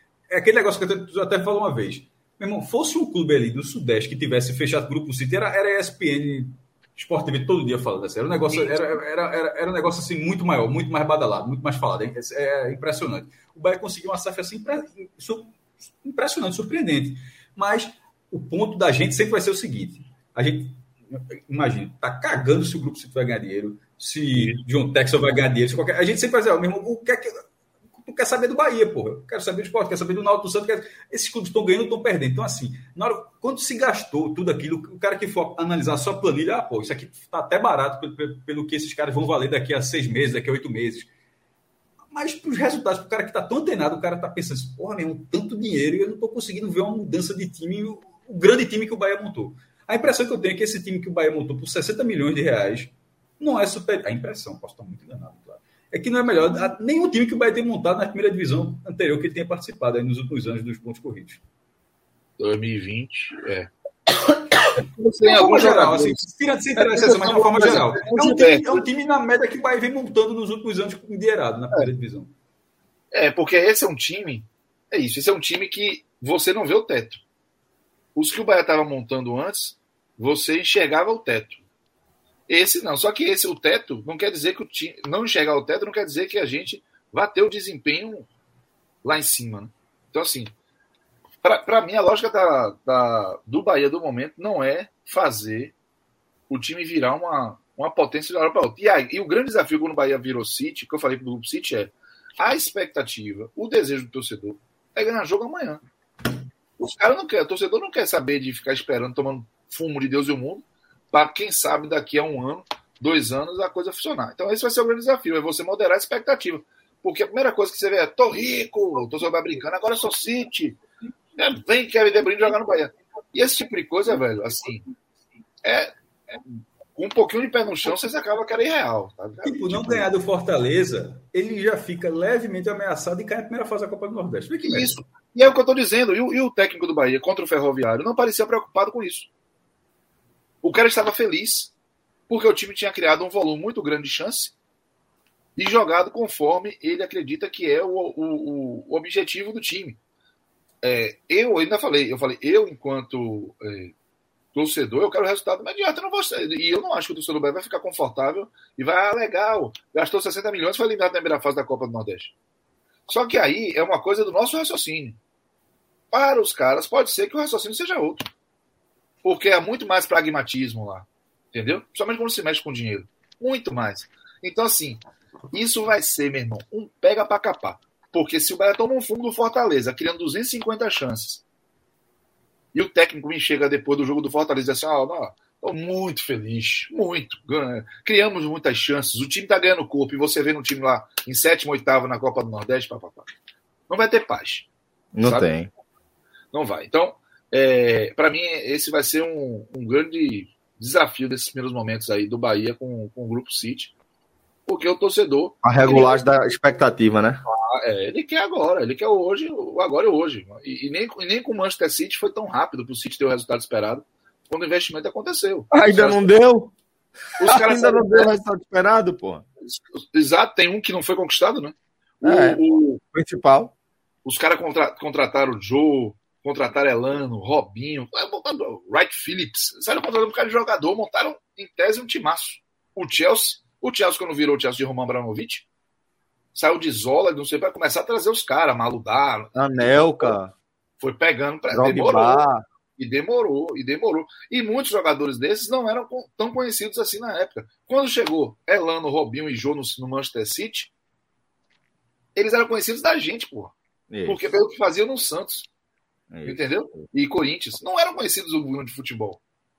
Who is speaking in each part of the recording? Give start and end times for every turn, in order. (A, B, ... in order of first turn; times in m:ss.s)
0:00.3-0:27.4 A
0:24.3-0:24.6 B
0:27.9-0:41.1 A
0:42.1-1:01.4 A
1:02.4-1:03.7 B
1:04.8-1:06.2 B
1:05.2-1:12.3 A
1:06.8-1:08.8 B
1:13.1-1:17.2 B
1:18.1-1:21.6 B
1:22.5-1:28.3 B
1:29.0-1:30.5 B
1:31.4-1:35.7 B
1:36.5-1:45.8 B
1:46.8-2:00.8 B
2:01.4-2:04.8 B
2:05.6-2:10.1 B
2:09.4-2:14.9 A
2:14.6-2:19.3 B
2:20.6-2:21.7 B
2:22.3-2:24.5 B
2:25.6-2:30.0 B
2:30.8-2:33.9 B
2:34.5-2:42.3 B
2:43.1-2:45.2 B
2:46.1-2:48.3 B
2:49.2-3:01.4 B
3:02.7-3:13.3 B
3:13.9-3:14.7 B
3:15.1-3:15.7 C
3:15.2-3:15.5 B
3:16.5-3:23.9 B
3:24.6-3:26.2 B
3:25.6-3:27.4 C
3:27.4-3:36.3 B
3:35.7-3:36.7 C
3:37.4-3:39.4 C
3:37.4-3:38.3 B
3:39.6-3:43.0 B
3:42.2-3:42.6 C
3:43.1-3:43.7 C
3:44.2-3:55.6 B
3:56.5-4:00.4 B
3:59.5-4:00.5 C
4:01.0-4:02.4 B
4:01.7-4:02.6 C
4:03.0-4:10.9 B
4:12.3-4:13.7 B
4:14.1-4:14.4 C
4:14.2-4:15.7 B
4:16.3-4:17.1 C
4:16.4-4:19.4 B